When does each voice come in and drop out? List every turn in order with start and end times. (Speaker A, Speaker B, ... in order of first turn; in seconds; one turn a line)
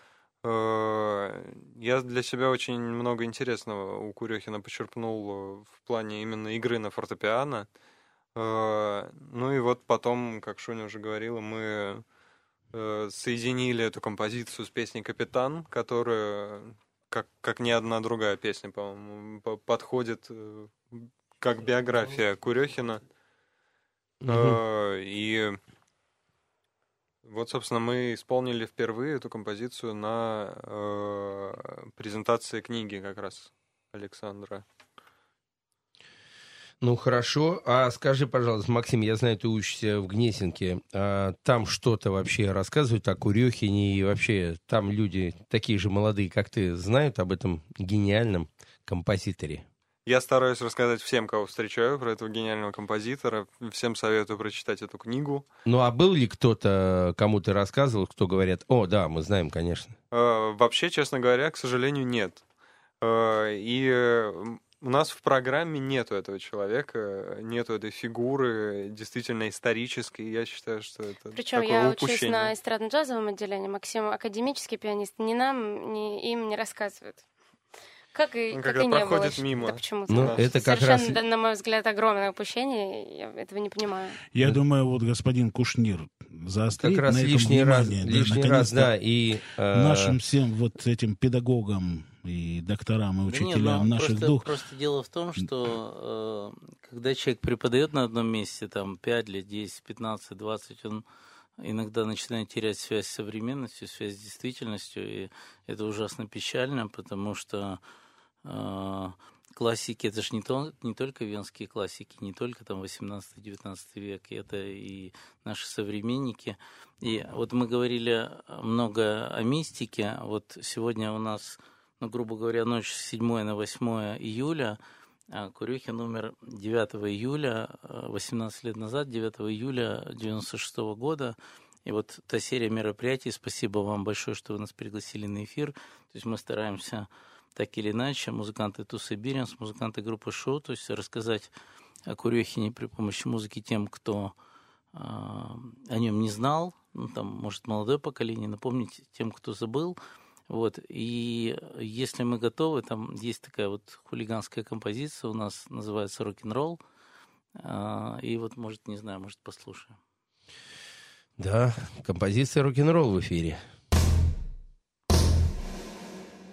Speaker A: 0.4-7.7
Speaker A: 8.3-12.1
Speaker A: 12.7-23.0
Speaker B: 24.2-24.6
Speaker A: 24.3-25.6
Speaker A: 27.2-34.6
Speaker B: 36.8-49.7
Speaker A: 50.1-55.5
Speaker B: 55.6-60.0
Speaker A: 60.1-62.4
Speaker A: 63.0-72.5
Speaker C: 71.3-77.2
Speaker C: 78.1-84.2
Speaker A: 78.5-80.4
Speaker B: 80.1-81.2
Speaker D: 84.3-88.9
Speaker B: 86.8-90.2
Speaker D: 89.7-94.5
Speaker E: 93.3-101.0
Speaker E: 101.6-107.8
Speaker E: 108.5-124.8
Speaker E: 125.3-141.5
Speaker E: 142.1-144.3
Speaker E: 144.9-150.0
Speaker E: 150.5-156.8
Speaker E: 157.6-160.0
Speaker B: 161.4-163.6